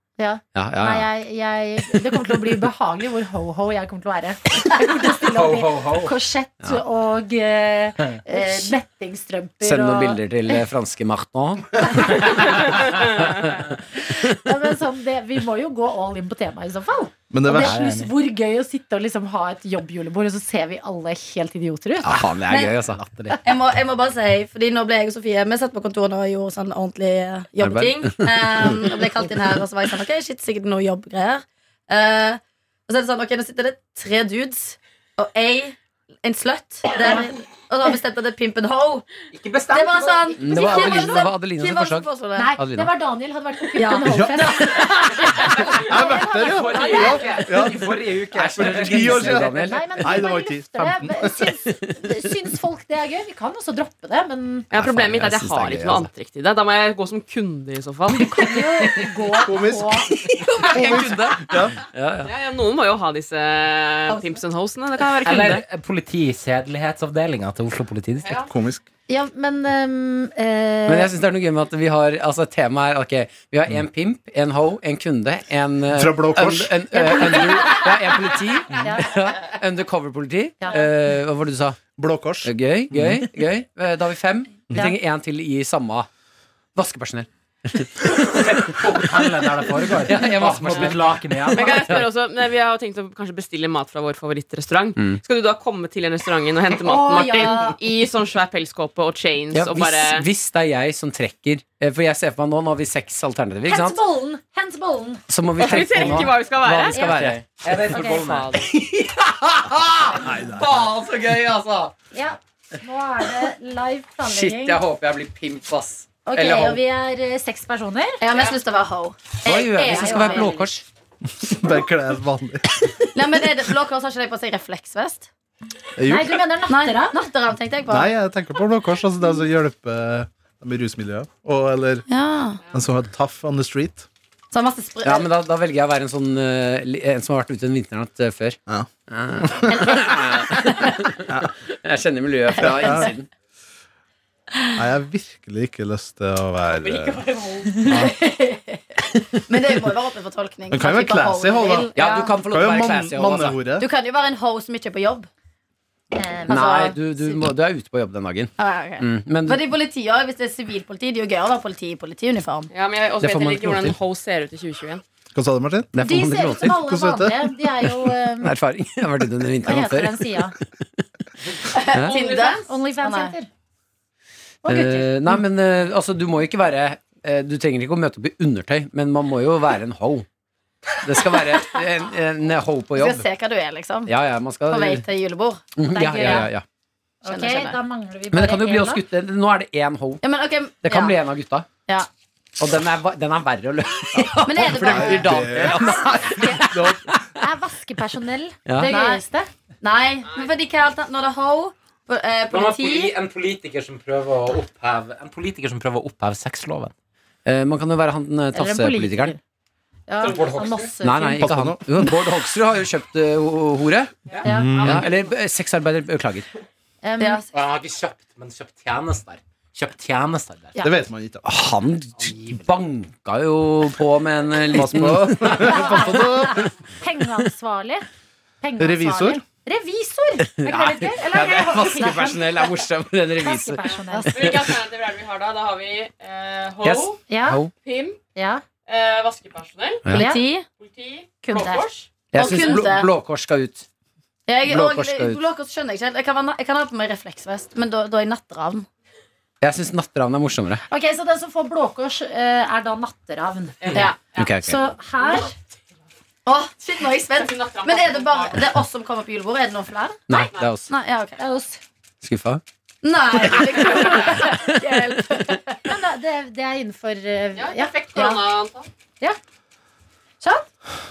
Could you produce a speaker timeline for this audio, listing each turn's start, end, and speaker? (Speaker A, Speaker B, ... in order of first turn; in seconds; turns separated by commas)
Speaker A: 0.2-10.2, Speaker B: 0.5-1.1, Speaker B: 2.1-2.4, Speaker C: 5.2-6.1, Speaker D: 8.3-8.7, Speaker B: 9.6-14.5, Speaker A: 12.1-13.2, Speaker A: 13.9-22.4, Speaker E: 17.3-17.8, Speaker C: 17.5-18.1, Speaker B: 22.0-23.0, Speaker D: 22.5-22.7, Speaker C: 22.9-23.4, Speaker A: 23.3-23.6, Speaker D: 23.4-39.0, Speaker B: 27.6-28.9, Speaker A: 37.0-37.3, Speaker C: 39.3-41.1, Speaker D: 39.7-42.5, Speaker B: 40.4-42.9, Speaker A: 40.5-41.0, Speaker A: 42.4-47.5, Speaker D: 43.8-44.2, Speaker E: 44.1-44.7, Speaker C: 45.4-49.5, Speaker E: 45.6-48.0, Speaker B: 48.3-50.2, Speaker E: 48.6-51.5, Speaker A: 49.5-54.7, Speaker F: 54.7-58.9, Speaker B: 54.7-56.1, Speaker A: 58.3-60.1, Speaker E: 59.4-60.1, Speaker B: 60.1-62.3, Speaker A: 60.6-61.1, Speaker E: 60.7-61.8, Speaker F: 62.2-65.6, Speaker C: 65.1-68.4, Speaker F: 68.2-68.5, Speaker E: 68.5-68.8, Speaker A: 69.1-71.1, Speaker B: 70.9-81.8, Speaker E: 75.9-76.8, Speaker A: 76.9-78.1, Speaker A: 78.8-79.2, Speaker A: 80.6-80.9, Speaker E: 82.0-83.2, Speaker B: 82.4-86.1, Speaker B: 86.7-88.8, Speaker C: 88.3-92.0, Speaker B: 90.0-92.0, Speaker F: 91.5-100.3, Speaker A: 96.7-97.8, Speaker B: 99.5-104.0, Speaker A: 103.7-105.2, Speaker B: 105.3-107.4, Speaker F: 105.6-107.1, Speaker C: 107.1-108.6, Speaker A: 107.9-108.4, Speaker B: 108.5-111.9, Speaker E: 110.1-110.9, Speaker A: 112.1-114.8, Speaker B: 114.2-116.8, Speaker A: 116.2-118.2, Speaker D: 116.3-116.8, Speaker D: 118.2-120.7, Speaker B: 119.4-120.8, Speaker A: 119.7-120.6, Speaker E: 121.3-123.0, Speaker D: 123.1-125.3, Speaker E: 126.0-126.5, Speaker A: 126.1-127.3, Speaker D: 126.7-128.1, Speaker E: 127.9-132.1, Speaker D: 132.1-132.6, Speaker E: 132.7-134.1, Speaker D: 134.5-135.3, Speaker B: 135.0-143.3, Speaker E: 139.4-139.7, Speaker D: 139.7-140.6, Speaker E: 142.6-143.1, Speaker E: 144.8-147.2, Speaker F: 146.7-148.1, Speaker E: 147.8-148.1, Speaker D: 147.9-148.8, Speaker D: 149.5-152.3, Speaker E: 150.7-151.9, Speaker B: 151.9-153.6, Speaker E: 152.4-153.9, Speaker D: 153.8-155.3, Speaker A: 156.1-157.4, Speaker D: 156.5-157.0, Speaker B: 156.5-159.7, Speaker D: 158.6-162.7, Speaker F: 162.7-165.0, Speaker B: 163.2-164.0, Speaker E: 165.3-165.9, Speaker B: 165.9-166.8, Speaker A: 166.0-168.5, Speaker E: 166.6-167.9, Speaker B: 168.4-171.0, Speaker A: 169.6-170.5, Speaker D: 171.7-173.3, Speaker B: 171.9-172.2, Speaker F: 172.1-172.6, Speaker A: 172.1-173.5, Speaker A: 174.6-175.4, Speaker B: 174.7-180.2, Speaker B: 181.0-183.2, Speaker D: 182.9-184.1, Speaker B: 184.1-185.0, Speaker D: 184.7-185.6, Speaker B: 185.8-186.6, Speaker A: 185.9-186.5, Speaker A: 187.2-189.0, Speaker D: 187.2-187.8, Speaker B: 188.3-190.2, Speaker D: 190.2-191.2, Speaker B: 190.8-191.7, Speaker B: 192.6-197.2, Speaker D: 194.4-195.5, Speaker E: 194.7-197.2, Speaker A: 195.6-199.5, Speaker B: 198.7-198.9, Speaker D: 198.8-199.2, Speaker D: 199.8-203.1, Speaker C: 202.5-206.9, Speaker B: 207.4-209.3, Speaker A: 208.5-209.4, Speaker A: 210.1-211.4, Speaker C: 210.2-210.9, Speaker F: 210.2-210.7, Speaker B: 211.0-214.2, Speaker E: 211.4-212.1, Speaker C: 214.3-214.9, Speaker A: 214.4-214.9, Speaker E: 214.4-215.1, Speaker B: 214.8-216.5, Speaker A: 217.0-217.4, Speaker D: 217.2-217.5, Speaker C: 217.5-220.8, Speaker E: 220.8-221.5, Speaker B: 221.4-226.7, Speaker C: 222.2-222.7, Speaker E: 224.7-226.7, Speaker A: 225.5-228.1, Speaker A: 228.6-232.7, Speaker E: 228.8-229.4, Speaker B: 230.6-234.7, Speaker A: 233.4-234.5, Speaker F: 234.3-237.2, Speaker B: 236.8-237.7, Speaker A: 237.3-237.6, Speaker F: 237.7-238.2, Speaker A: 238.3-238.6, Speaker F: 238.8-240.2, Speaker A: 240.1-240.4, Speaker D: 240.2-240.7, Speaker F: 240.7-242.7, Speaker A: 241.4-241.9, Speaker D: 242.3-243.1, Speaker B: 242.3-243.8, Speaker D: 244.5-248.9, Speaker B: 244.7-245.4, Speaker B: 249.6-250.8, Speaker A: 250.9-254.1, Speaker F: 253.9-254.6, Speaker B: 253.9-254.8, Speaker A: 254.6-255.5, Speaker F: 255.2-255.5, Speaker D: 256.4-261.4, Speaker F: 257.3-258.7, Speaker B: 260.3-260.9, Speaker F: 260.3-260.7, Speaker A: 261.4-261.8, Speaker B: 262.2-262.6, Speaker D: 263.0-265.9, Speaker F: 264.0-264.3, Speaker A: 265.9-268.4, Speaker F: 267.6-268.9, Speaker A: 270.4-270.7